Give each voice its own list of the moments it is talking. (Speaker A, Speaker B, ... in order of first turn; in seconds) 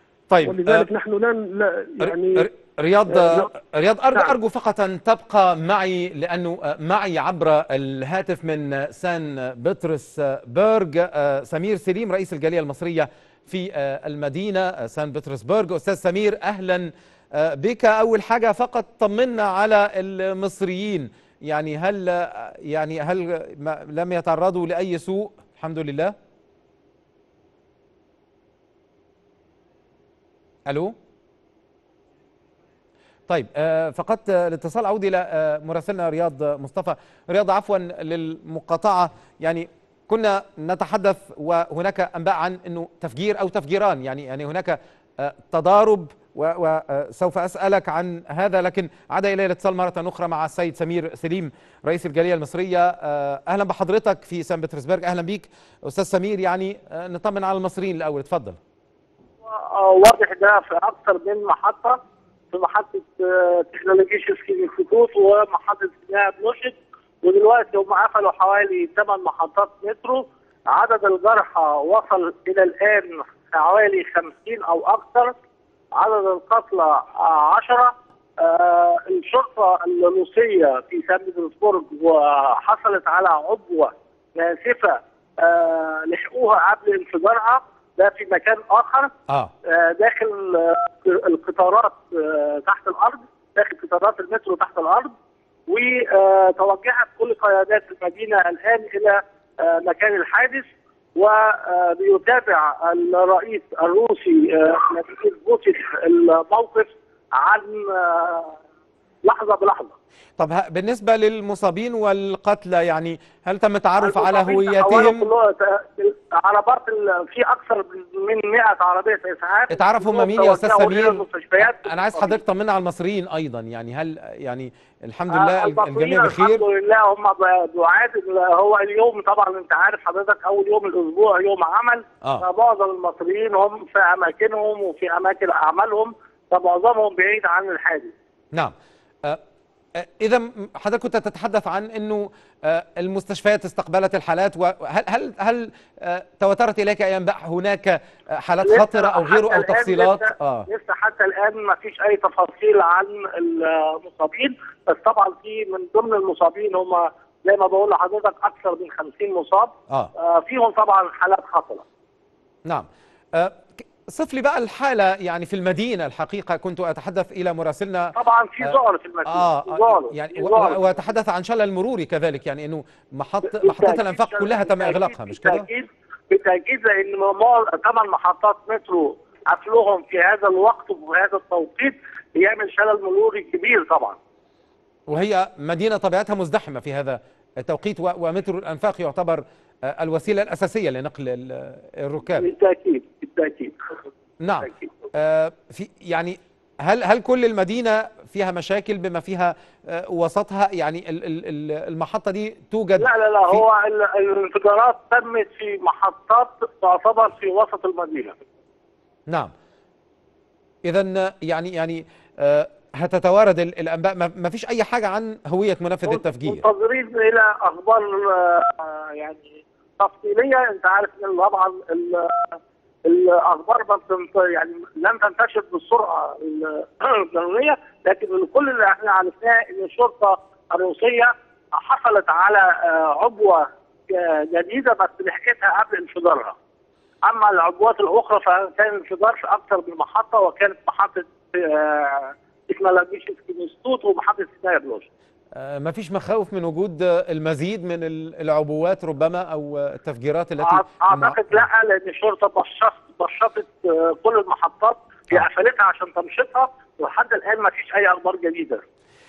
Speaker A: 0.3-0.9, 2.0-26.1, 30.7-30.9, 33.3-58.6, 110.4-115.3, 119.7-126.6, 140.0-150.7, 162.7-175.7, 185.1-192.5, 194.4-203.6, 210.9-216.6, 245.5-251.7
Speaker B: 0.4-2.5, 3.1-3.5
Speaker C: 59.5-62.0, 62.5-75.3, 75.9-89.1, 89.6-95.1, 95.7-108.6, 109.2-109.9, 114.0-122.4, 125.3-138.1, 148.6-161.8, 168.1-170.9, 173.5-184.2, 192.3-193.8, 194.6-194.9, 203.0-208.3, 216.1-236.6, 237.2-245.1, 250.6-258.8